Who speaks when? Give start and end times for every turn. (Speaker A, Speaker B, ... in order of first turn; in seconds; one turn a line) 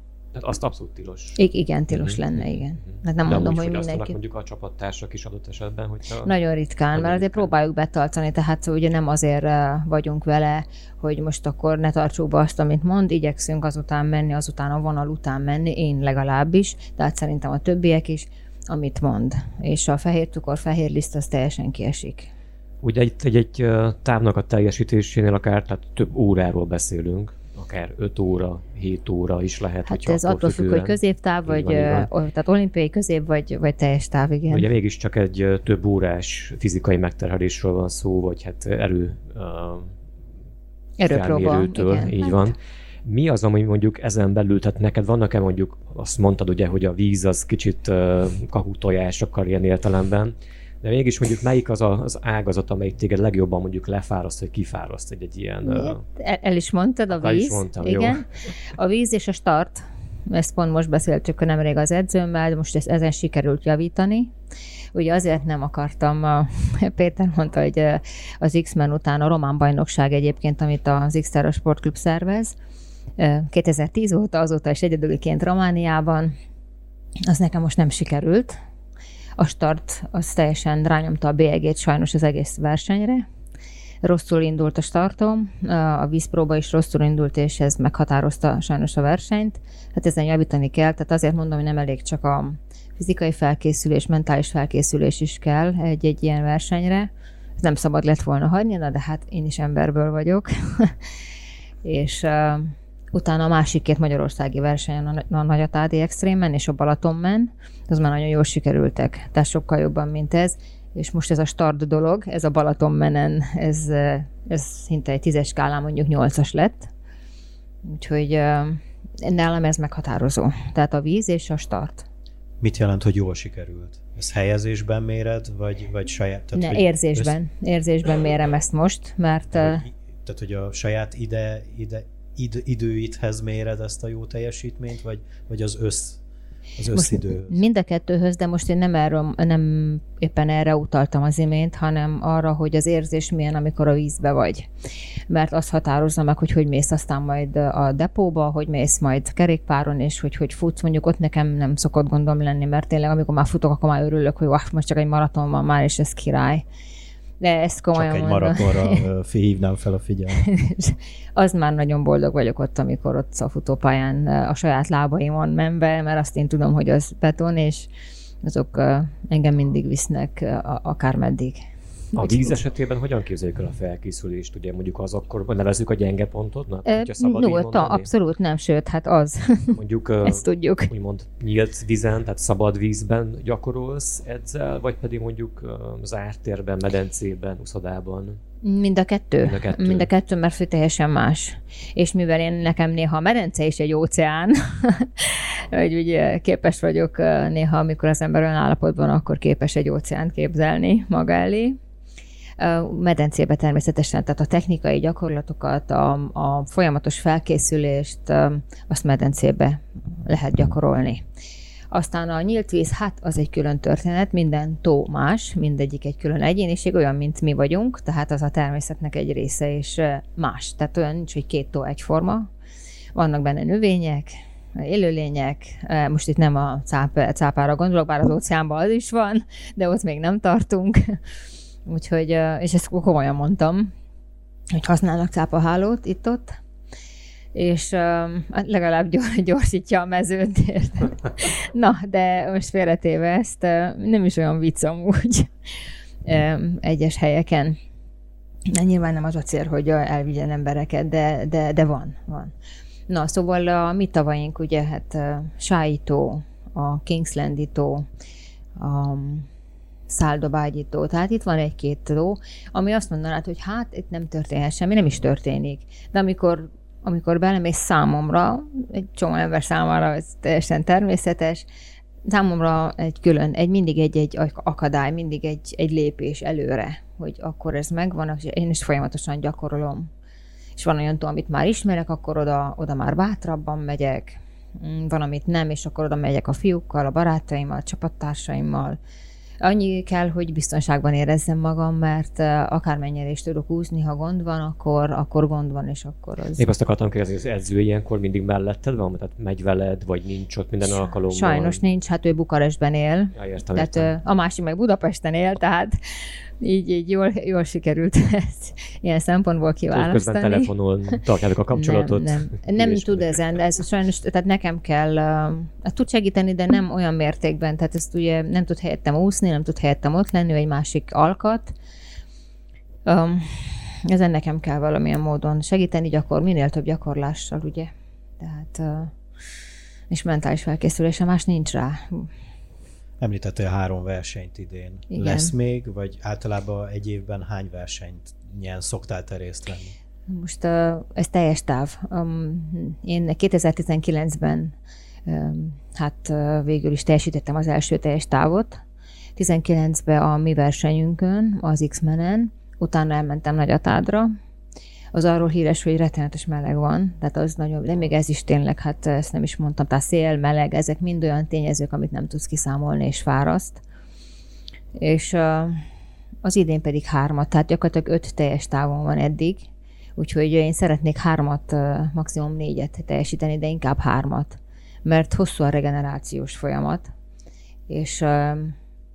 Speaker A: 0.3-1.4
Speaker B: 1.4-4.2
Speaker A: 1.9-6.3
Speaker B: 6.2-22.3
Speaker A: 6.9-7.5
Speaker A: 22.8-32.1
Speaker B: 29.9-34.7
Speaker A: 34.5-39.9
Speaker B: 41.0-42.5
Speaker A: 41.1-56.0
Speaker B: 55.6-64.3
Speaker A: 57.1-58.2
Speaker B: 64.9-72.5
Speaker B: 73.2-76.3
Speaker B: 77.3-78.5
Speaker B: 79.4-83.2
Speaker B: 84.0-100.9
Speaker B: 101.8-116.9
Speaker B: 117.9-122.0
Speaker C: 122.6-127.3
Speaker B: 126.5-129.8
Speaker C: 129.5-136.2
Speaker C: 136.8-137.6
Speaker B: 136.9-144.7
Speaker B: 145.3-156.6
Speaker B: 157.4-159.0
Speaker C: 157.9-160.4
Speaker B: 160.3-167.9
Speaker B: 168.4-172.5
Speaker A: 172.2-178.1
Speaker B: 176.8-180.9
Speaker A: 179.7-188.4
Speaker B: 188.6-201.8
Speaker A: 189.4-190.1
Speaker B: 202.6-211.2
Speaker B: 211.9-222.5
Speaker B: 223.1-231.2
Speaker B: 231.8-233.9
Speaker B: 234.7-236.6
Speaker B: 237.5-245.5
Speaker B: 246.2-247.8
Speaker B: 248.7-252.5
Speaker B: 253.1-258.1
Speaker B: 258.8-259.5
Speaker B: 260.1-271.7
Speaker B: 272.3-280.1
Speaker B: 280.8-289.0
Speaker B: 289.6-296.6
Speaker A: 296.6-301.8
Speaker B: 300.9-306.0
Speaker A: 303.3-304.1
Speaker B: 306.6-310.7
Speaker A: 309.9-313.6
Speaker B: 311.7-321.7
Speaker B: 323.1-329.1
Speaker B: 330.1-332.3
Speaker C: 333.2-339.9
Speaker B: 335.1-335.5
Speaker B: 340.3-344.7
Speaker B: 345.2-348.8
Speaker B: 349.4-354.3
Speaker B: 355.1-363.8
Speaker B: 365.0-365.8
Speaker B: 366.4-377.1
Speaker B: 377.9-378.8